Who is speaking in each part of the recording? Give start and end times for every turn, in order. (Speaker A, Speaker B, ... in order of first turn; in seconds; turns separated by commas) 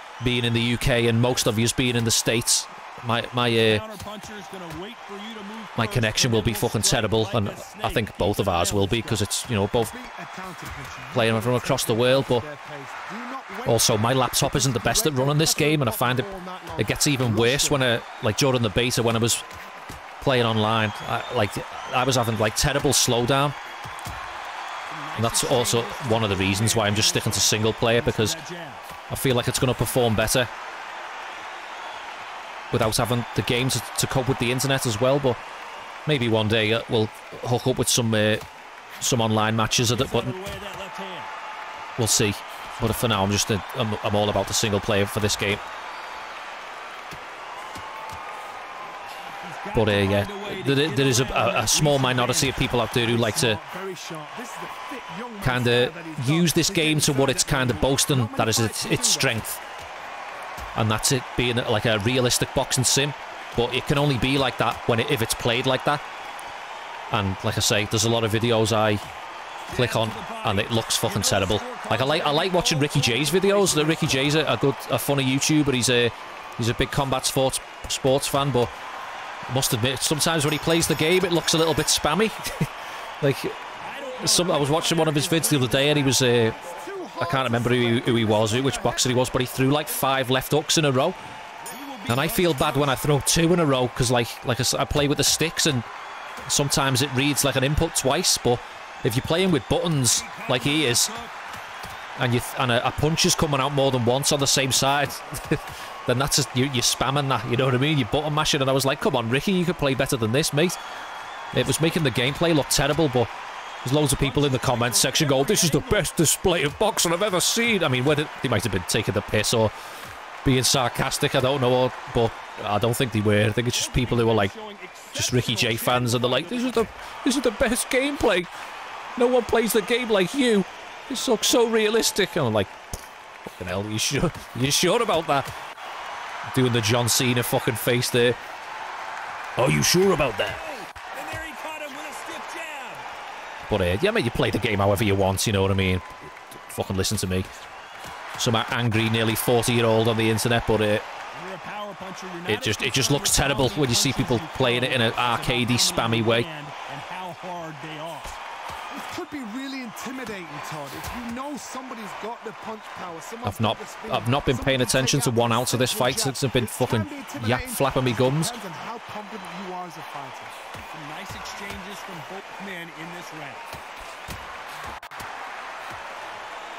Speaker A: 0.2-3.8, Speaker B: 3.5-9.2, Speaker A: 5.8-9.9, Speaker C: 9.9-17.9, Speaker A: 11.1-12.5, Speaker A: 13.7-19.4, Speaker A: 20.2-23.6, Speaker B: 24.9-28.9, Speaker A: 25.2-28.4, Speaker A: 29.1-30.5, Speaker A: 32.7-35.4, Speaker A: 36.1-38.5, Speaker A: 39.0-40.4, Speaker B: 39.9-41.3, Speaker A: 42.0-45.6, Speaker B: 49.4-52.7, Speaker A: 49.7-53.6, Speaker C: 53.0-59.4, Speaker A: 55.4-59.6, Speaker A: 60.8-66.0, Speaker A: 67.1-69.0, Speaker B: 69.7-74.4, Speaker A: 69.7-78.8, Speaker A: 79.5-83.6, Speaker B: 83.8-86.2, Speaker A: 84.2-86.6, Speaker C: 86.6-89.7, Speaker A: 87.2-91.2, Speaker B: 91.6-93.0, Speaker A: 92.1-95.9, Speaker A: 96.4-101.1, Speaker B: 100.1-101.4, Speaker A: 102.2-110.8, Speaker A: 111.5-113.3, Speaker A: 113.8-119.7, Speaker B: 114.1-116.1, Speaker A: 120.4-124.5, Speaker B: 123.7-126.9, Speaker A: 125.1-128.5, Speaker A: 129.2-132.7, Speaker A: 133.4-135.5, Speaker A: 136.5-138.4, Speaker A: 139.6-140.7, Speaker B: 140.5-143.1, Speaker A: 143.7-147.5, Speaker A: 148.4-151.1, Speaker B: 151.3-158.4, Speaker A: 152.5-156.5, Speaker C: 158.9-170.6, Speaker A: 163.4-168.6, Speaker B: 170.8-173.7